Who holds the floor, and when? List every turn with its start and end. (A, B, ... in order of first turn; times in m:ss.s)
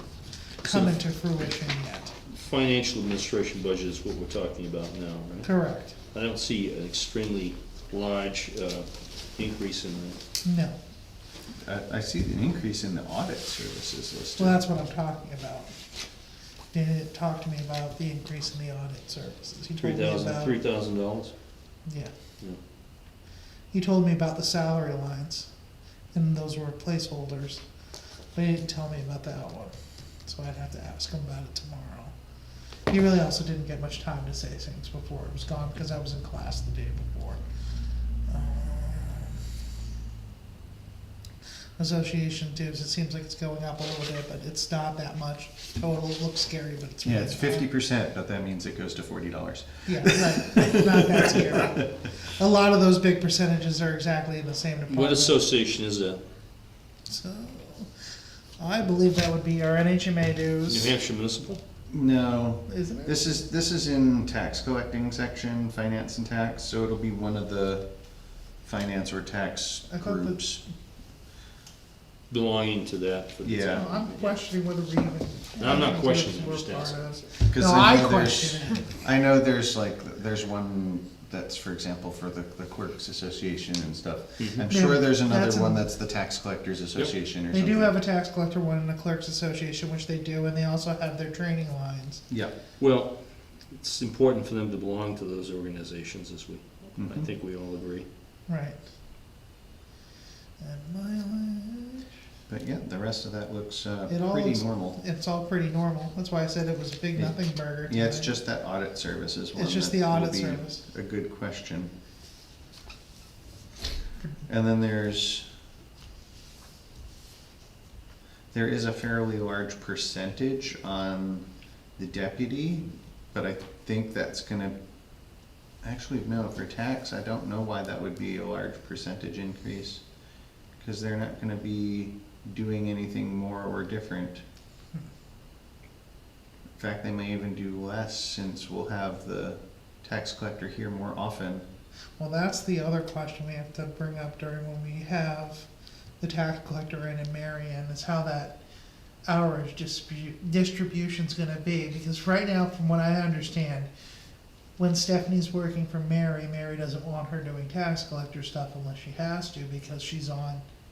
0:00.6-0:02.1 A
0:00.7-0:01.0 B
0:02.3-0:05.5 B
0:05.4-0:05.9 A
0:06.1-0:10.2 B
0:10.4-0:10.8 A
0:11.6-0:14.6 C
0:14.4-0:15.8 A
0:16.7-0:20.6 A
0:19.8-0:21.3 B
0:21.8-0:22.1 A
0:23.7-0:25.5 A
0:26.1-0:27.6 A
0:28.3-0:32.1 A
0:32.9-0:37.4 A
0:38.3-0:39.4 A
0:41.8-0:47.6 A
0:47.0-0:51.8 C
0:49.9-0:55.5 A
0:54.9-0:56.2 B
0:57.1-0:57.9 A
0:58.6-1:00.9 A
1:00.7-1:01.6 B
1:01.9-1:07.9 C
1:02.7-1:03.4 A
1:08.6-1:10.6 C
1:09.9-1:10.4 A
1:12.3-1:14.4 B
1:13.4-1:13.9 C
1:13.6-1:19.0 A
1:15.6-1:17.0 B
1:17.5-1:28.0 C
1:24.4-1:24.7 B
1:24.7-1:25.9 A
1:27.5-1:32.2 A
1:32.3-1:32.5 C
1:32.8-1:33.2 B
1:33.7-1:38.1 B
1:37.0-1:37.3 C
1:38.5-1:38.8 A
1:40.6-1:42.1 A
1:42.5-1:45.0 C
1:44.1-1:48.4 A
1:47.2-1:51.9 C
1:49.6-1:50.8 A
1:54.5-1:55.5 C
1:58.5-2:01.5 C
2:02.0-2:04.8 C
2:05.8-2:10.0 C
2:10.8-2:14.4 C
2:16.8-2:21.6 C
2:22.2-2:25.7 A
2:26.2-2:28.6 A
2:29.3-2:33.9 A
2:34.8-2:40.6 A